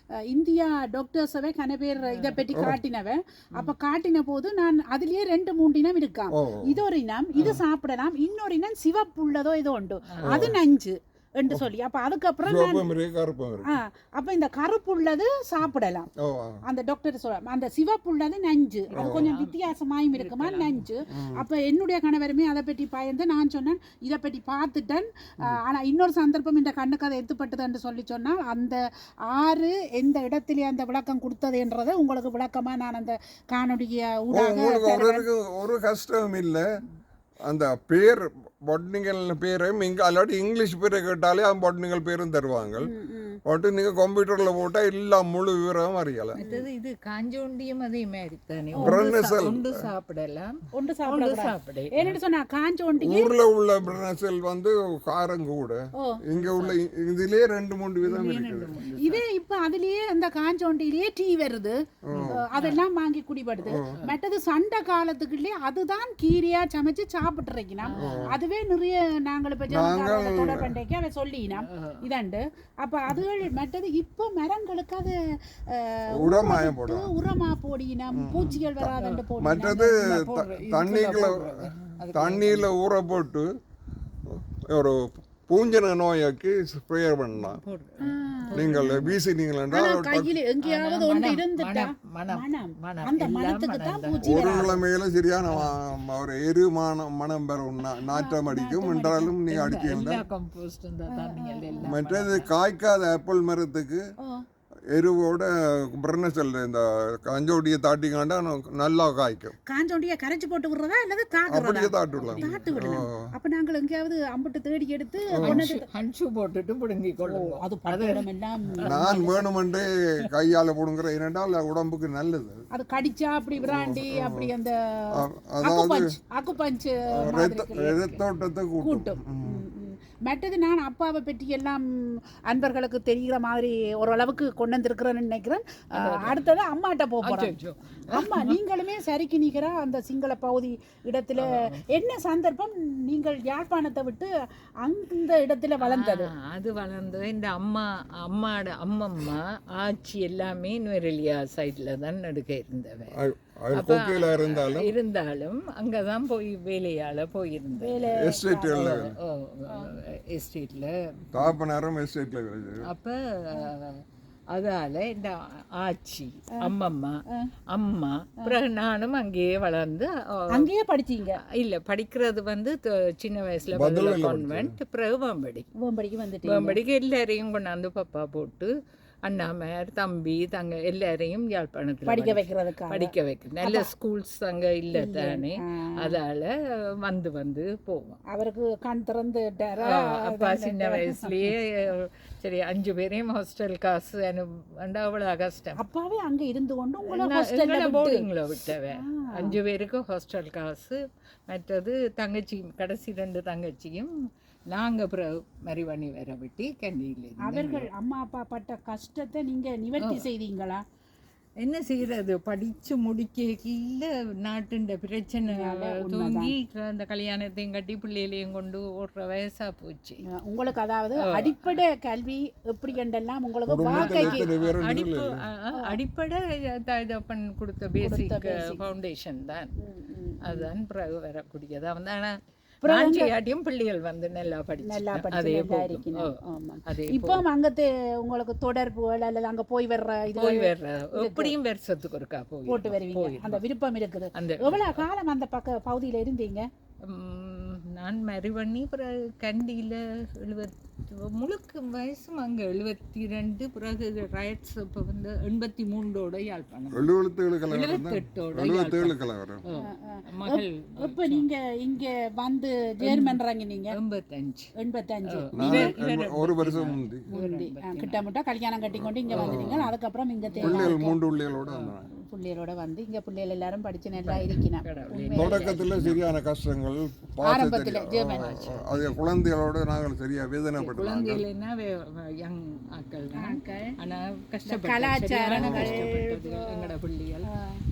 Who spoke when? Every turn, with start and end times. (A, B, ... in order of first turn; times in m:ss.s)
0:00.3-0:12.9 A
0:02.0-0:02.4 B
0:02.5-0:02.8 C
0:06.3-0:06.8 C
0:07.4-0:07.6 B
0:10.1-0:10.5 B
0:10.3-0:10.6 C
0:12.4-0:13.7 C
0:13.6-0:16.1 A
0:16.2-0:16.6 C
0:16.6-0:35.3 A
0:18.9-0:19.6 B
0:19.0-0:19.3 C
0:20.1-0:20.9 B
0:21.1-0:21.4 C
0:34.3-0:36.6 C
0:37.5-0:42.9 C
0:42.8-0:43.4 A
0:43.5-0:46.4 C
0:46.4-0:46.6 A
0:46.4-0:52.2 B
0:48.8-0:49.8 C
0:50.7-0:53.3 A
0:53.0-0:58.7 C
0:56.3-0:56.8 B
0:58.0-0:59.2 B
0:59.0-1:15.2 A
1:02.1-1:02.4 C
1:02.1-1:02.8 B
1:03.6-1:04.0 C
1:07.8-1:08.3 B
1:08.0-1:08.4 C
1:09.7-1:10.8 C
1:11.6-1:12.0 B
1:15.7-1:20.2 A
1:16.1-1:17.1 C
1:18.1-1:23.5 C
1:18.4-1:19.3 B
1:20.1-1:22.7 B
1:24.3-1:27.6 C
1:27.4-1:29.2 B
1:28.0-1:28.7 A
1:28.5-1:30.4 C
1:29.7-1:34.8 A
1:30.6-1:34.7 B
1:34.2-1:40.2 C
1:38.0-1:39.4 A
1:39.5-1:42.5 B
1:41.1-1:41.9 A
1:41.9-1:44.0 C
1:44.9-1:49.6 C
1:49.7-1:55.9 A
1:51.5-1:53.3 C
1:52.2-1:52.8 B
1:55.3-1:55.6 C
1:55.4-1:58.3 B
1:57.2-1:59.1 A
1:58.8-1:59.4 B
1:58.8-2:02.6 C
2:02.7-2:08.2 A
2:03.6-2:04.5 C
2:05.2-2:06.0 C
2:07.2-2:09.6 C
2:08.8-2:17.5 A
2:16.0-2:16.5 B
2:17.2-2:18.6 B
2:18.1-2:24.3 A
2:21.4-2:21.8 B
2:24.8-2:26.3 A
2:25.8-2:33.1 B
2:33.1-2:34.9 C
2:33.7-2:38.0 B
2:37.8-2:39.1 A
2:38.1-2:39.2 C
2:39.2-2:41.5 B
2:41.3-2:42.9 C
2:42.8-2:50.7 B
2:50.5-2:51.4 A
2:51.5-2:55.7 B
2:53.7-2:54.8 C
2:55.8-2:56.8 A
2:56.4-2:58.7 B
2:59.3-3:06.5 B
3:02.1-3:03.1 A
3:03.6-3:03.9 A
3:04.9-3:06.2 A
3:07.0-3:08.2 B
3:08.3-3:11.5 A
3:09.8-3:15.8 B
3:15.8-3:18.2 A
3:17.1-3:21.0 B
3:18.9-3:19.6 A
3:21.5-3:24.1 B
3:24.7-3:27.9 B
3:27.4-3:30.8 A
3:30.0-3:30.3 B
3:31.6-3:40.2 B
3:35.5-3:36.5 A
3:40.3-3:44.5 A
3:41.4-3:41.8 B
3:43.7-3:45.4 C
3:43.9-3:49.7 B
3:48.0-3:48.8 A
3:49.8-3:50.7 A
3:50.4-3:56.3 B
3:52.8-3:53.3 A
3:54.8-4:01.6 A
3:56.9-3:57.4 B
4:00.4-4:03.6 B
4:02.7-4:06.7 A
4:04.4-4:05.1 B
4:07.0-4:17.1 B
4:16.9-4:19.6 C
4:17.7-4:21.5 B
4:19.8-4:24.0 A
4:23.0-4:23.4 B
4:23.9-4:24.7 B
4:24.8-4:25.9 A
4:25.3-4:28.2 B
4:25.6-4:27.3 C
4:27.3-4:31.2 A
4:29.3-4:29.9 C
4:29.3-4:29.8 B
4:30.5-4:31.0 B
4:30.6-4:32.1 C
4:31.7-4:31.9 B
4:32.2-4:35.7 A
4:34.2-4:36.2 B
4:35.4-4:41.4 C
4:37.4-4:38.5 A
4:38.2-4:39.2 B
4:40.8-4:47.5 B
4:43.4-4:44.0 A
4:44.7-4:47.0 A
4:45.6-4:46.1 C
4:47.5-4:47.8 A